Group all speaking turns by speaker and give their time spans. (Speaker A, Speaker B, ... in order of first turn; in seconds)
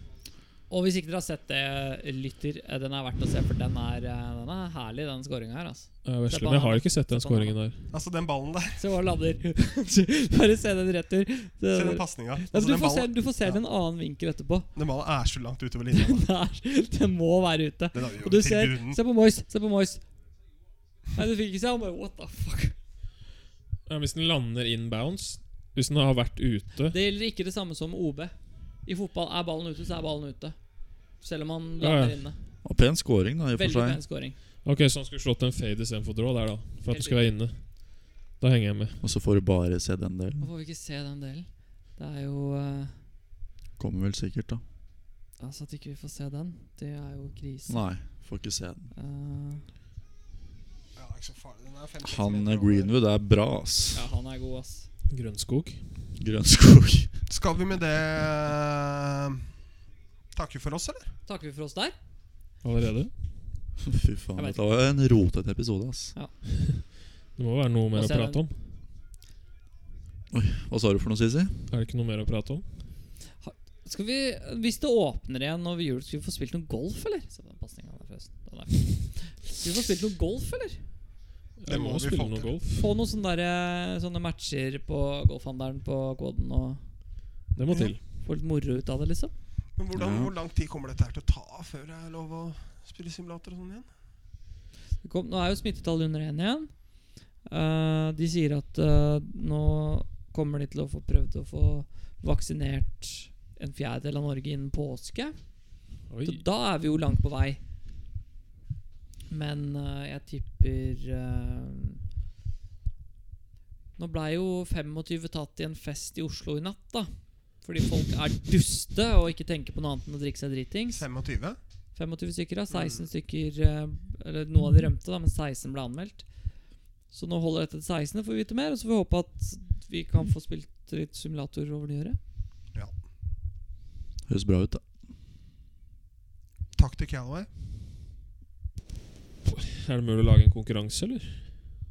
Speaker A: 0.7-7.6, 8.8-14.7, 15.9-20.1, 21.1-22.8, 26.9-30.6, 31.2-32.4, 33.5-34.4, 36.9-37.3, 40.4-43.0, 45.4-47.8, 49.0-49.7, 53.9-54.9, 61.3-62.0, 67.9-68.4, 73.4-80.9, 82.8-86.8, 88.2-89.3, 95.0-105.6, 106.2-107.6, 109.3-112.0, 114.0-121.1, 122.0-126.3, 127.1-132.2
Speaker B: 6.0-7.8, 23.9-27.0, 31.8-32.2, 34.6-39.0, 55.1-55.9, 62.6-63.1, 66.6-68.6, 71.7-72.7, 81.6-82.9, 87.5-88.0, 106.1-106.4, 139.4-141.5
Speaker C: 7.9-8.8, 11.7-13.6, 14.8-16.3, 17.9-19.0, 51.0-52.9, 57.3-59.4, 60.3-61.1, 81.7-82.6, 89.8-93.9, 120.9-121.6, 122.7-123.1, 136.8-137.5
Speaker D: 32.6-34.0, 39.0-40.5, 43.8-44.6, 47.7-48.9, 52.0-54.0, 56.2-57.2, 63.8-66.1, 70.3-71.6, 89.9-90.3, 134.3-134.8